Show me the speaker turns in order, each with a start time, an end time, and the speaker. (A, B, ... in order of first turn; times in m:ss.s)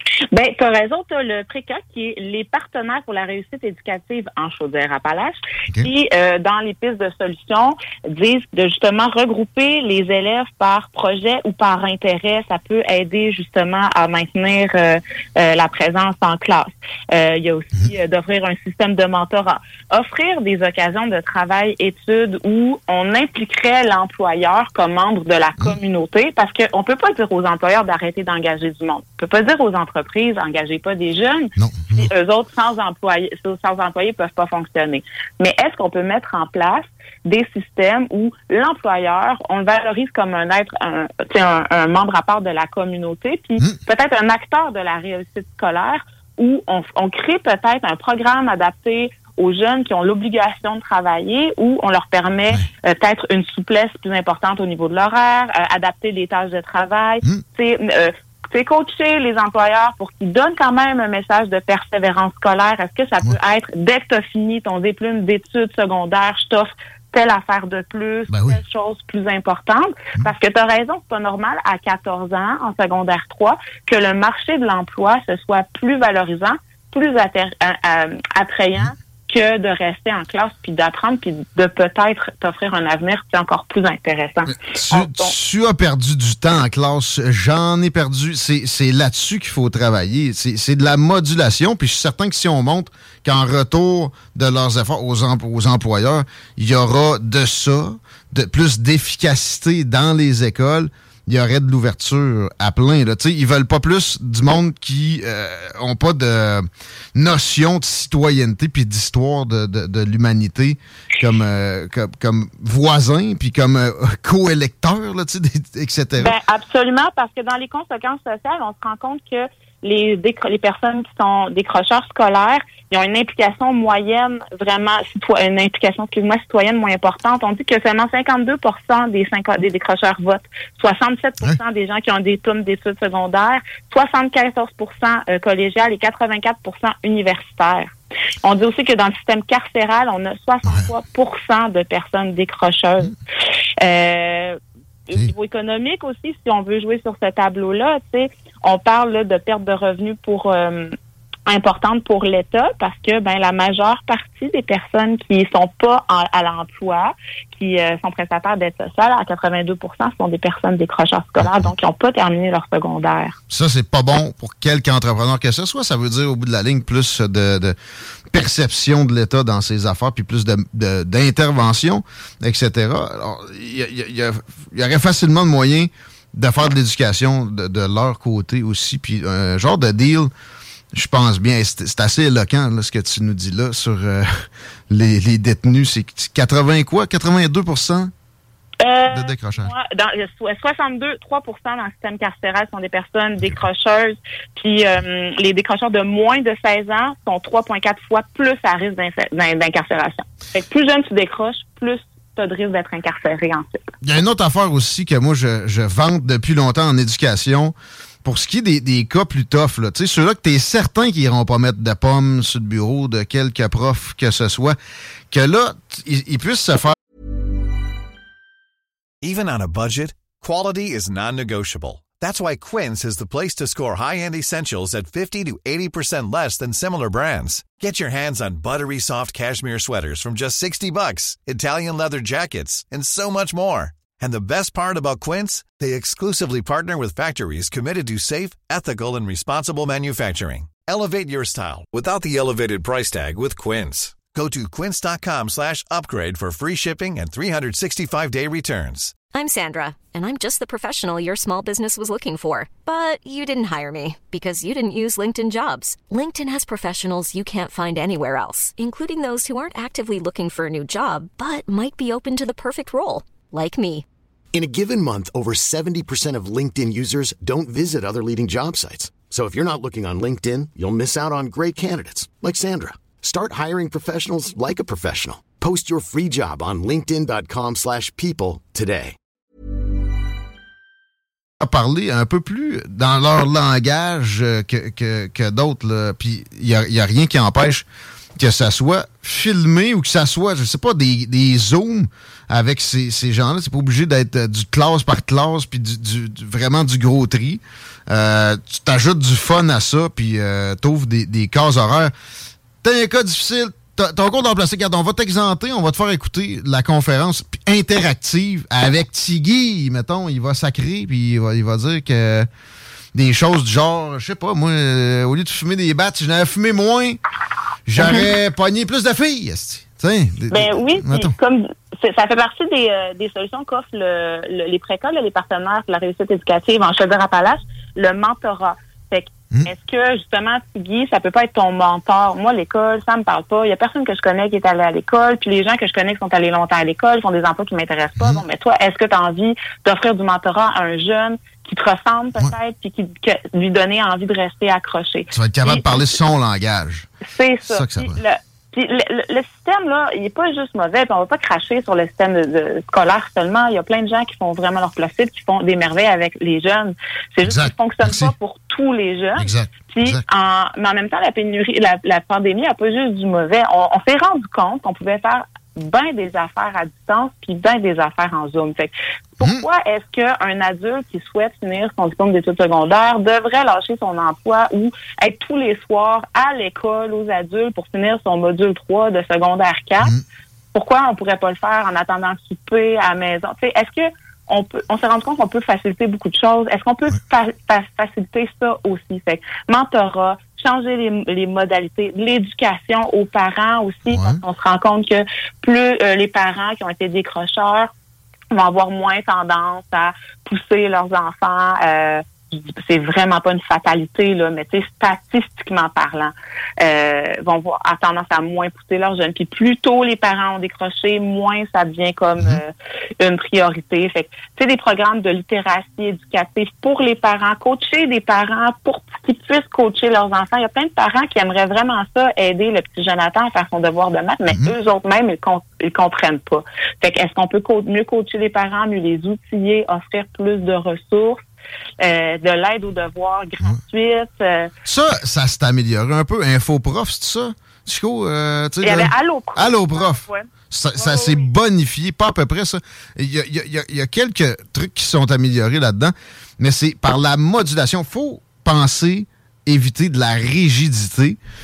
0:00.3-1:25.3 A
0:31.6-0:32.1 B
1:08.3-1:08.6 B
1:24.5-1:56.4 B
1:56.2-2:23.2 A
2:23.8-2:31.0 A
2:31.5-2:43.4 A
2:41.4-2:41.7 B
2:43.5-2:47.8 B
2:48.3-3:00.3 B
3:00.9-3:08.1 B
3:08.8-3:23.9 A
3:09.1-3:09.7 B
3:24.0-3:34.8 B
3:35.3-3:37.0 B
3:39.2-4:09.2 C
4:09.3-4:24.0 D
4:24.5-4:39.2 E
4:41.6-5:02.1 B
5:02.8-5:12.5 B
5:13.1-5:17.2 B
5:17.9-5:21.3 B
5:20.5-5:45.9 A
5:38.2-5:38.4 B
5:45.3-5:47.1 B
5:47.2-6:20.1 A
5:47.7-5:48.2 B
5:57.4-5:58.3 B
5:59.4-6:00.2 B
6:20.7-6:37.9 A
6:34.1-6:34.4 B
6:38.5-7:11.4 A
7:04.5-7:04.7 B
7:12.0-7:14.7 A
7:14.8-7:31.4 B
7:18.8-7:21.5 A